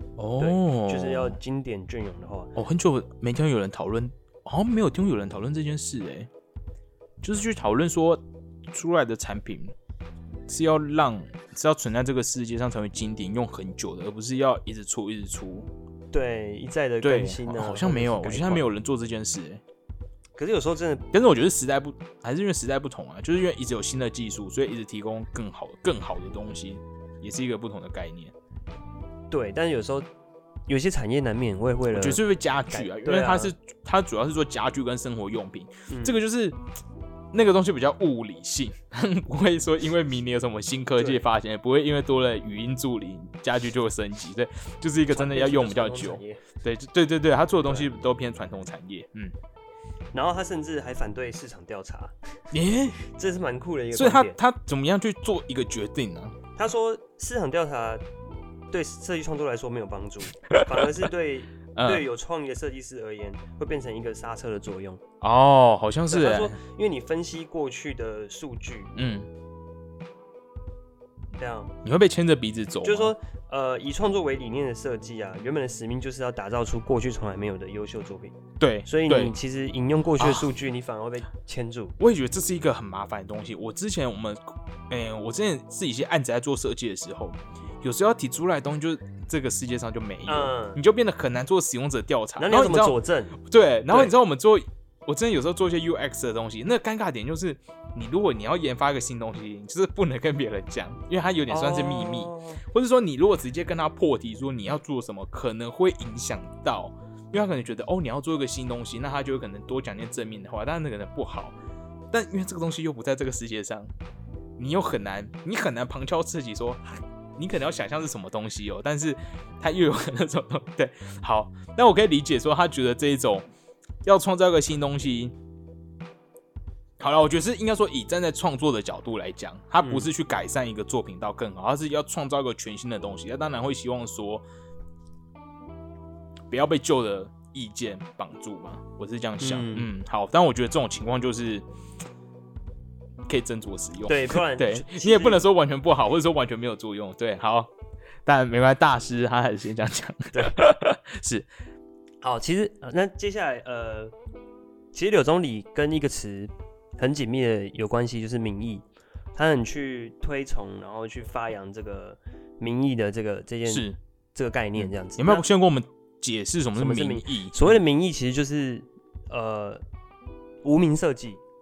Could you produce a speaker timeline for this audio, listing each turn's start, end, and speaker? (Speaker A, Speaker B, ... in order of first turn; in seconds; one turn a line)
Speaker A: 0.2-1.4
Speaker B: 0.4-2.5
Speaker A: 2.6-6.3
Speaker A: 7.2-9.8
Speaker A: 10.5-15.7
Speaker B: 16.1-18.7
Speaker A: 17.0-19.6
Speaker B: 20.4-21.1
Speaker A: 21.1-28.3
Speaker B: 29.3-30.1
Speaker B: 30.7-32.2
Speaker A: 31.9-36.6
Speaker B: 32.7-33.5
Speaker B: 35.9-36.2
Speaker A: 37.3-49.4
Speaker B: 41.0-41.2
Speaker B: 45.1-46.4
Speaker B: 50.1-52.1
Speaker A: 52.5-53.0
Speaker B: 53.0-54.4
Speaker A: 53.9-56.4
Speaker B: 56.6-58.0
Speaker B: 58.7-65.0
Speaker A: 60.5-60.9
Speaker A: 61.8-62.0
Speaker A: 65.2-66.6
Speaker B: 66.1-69.0
Speaker A: 69.0-69.3
Speaker B: 71.3-71.7
Speaker A: 71.8-73.1
Speaker B: 72.8-82.0
Speaker A: 78.6-79.3
Speaker A: 80.2-80.5
Speaker A: 82.0-111.6
Speaker B: 90.3-90.8
Speaker B: 92.4-93.4
Speaker B: 101.5-102.6
Speaker A: 112.1-113.9
Speaker A: 114.6-116.8
Speaker A: 117.4-123.5
Speaker A: 124.0-125.4
Speaker A: 127.0-134.4
Speaker B: 129.8-130.1
Speaker A: 136.5-141.7
Speaker B: 139.4-139.9
Speaker A: 143.3-147.7
Speaker B: 144.1-145.4
Speaker A: 148.2-151.5
Speaker B: 152.2-154.1
Speaker B: 154.9-165.5
Speaker A: 163.7-164.0
Speaker A: 164.8-167.8
Speaker B: 166.8-169.8
Speaker B: 170.6-171.4